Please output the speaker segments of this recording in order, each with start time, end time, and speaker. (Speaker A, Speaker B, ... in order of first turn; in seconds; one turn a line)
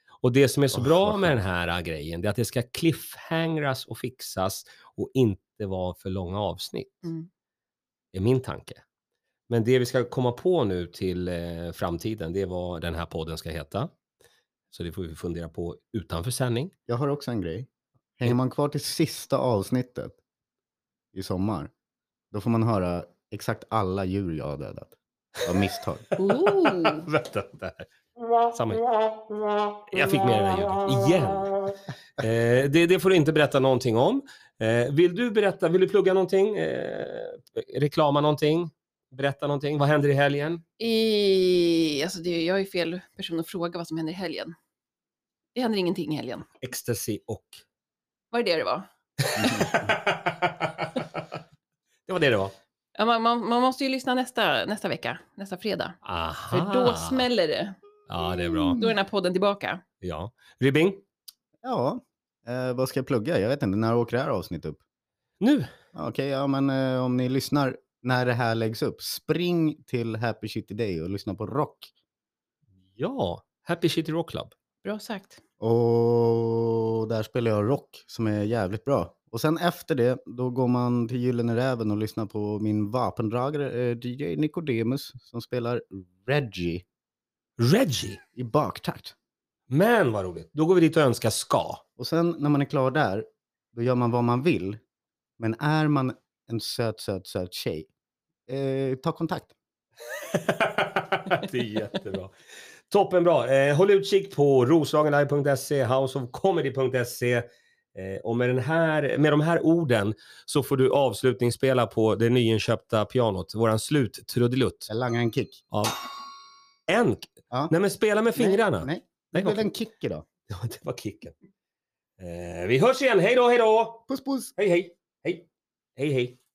Speaker A: 0.2-7.1
Speaker B: 0.7-1.3
Speaker A: 8.1-8.8
Speaker A: 9.5-13.9
Speaker A: 14.7-16.7
Speaker B: 16.9-20.2
Speaker B: 21.1-21.7
Speaker B: 22.3-26.1
Speaker A: 26.1-27.9
Speaker C: 26.2-27.1
Speaker A: 28.4-28.9
Speaker A: 29.9-40.6
Speaker C: 40.8-44.5
Speaker C: 45.5-46.5
Speaker A: 46.6-47.6
Speaker C: 48.3-48.9
Speaker A: 49.2-51.3
Speaker B: 49.4-49.9
Speaker A: 52.1-52.5
Speaker C: 53.0-56.0
Speaker A: 56.0-57.3
Speaker C: 56.5-59.8
Speaker A: 58.1-58.8
Speaker A: 60.0-61.0
Speaker B: 61.6-64.8
Speaker A: 65.4-65.7
Speaker B: 65.9-71.9
Speaker A: 73.0-74.5
Speaker C: 74.8-75.4
Speaker B: 75.6-86.8
Speaker A: 87.6-88.2
Speaker B: 88.4-89.2
Speaker A: 89.7-91.8
Speaker B: 92.0-94.8
Speaker B: 95.4-97.9
Speaker B: 98.5-99.5
Speaker A: 100.1-102.3
Speaker A: 102.9-114.9
Speaker B: 114.9-115.6
Speaker A: 116.9-119.7
Speaker B: 118.3-120.2
Speaker A: 120.5-121.3
Speaker A: 122.2-126.4
Speaker B: 124.1-124.5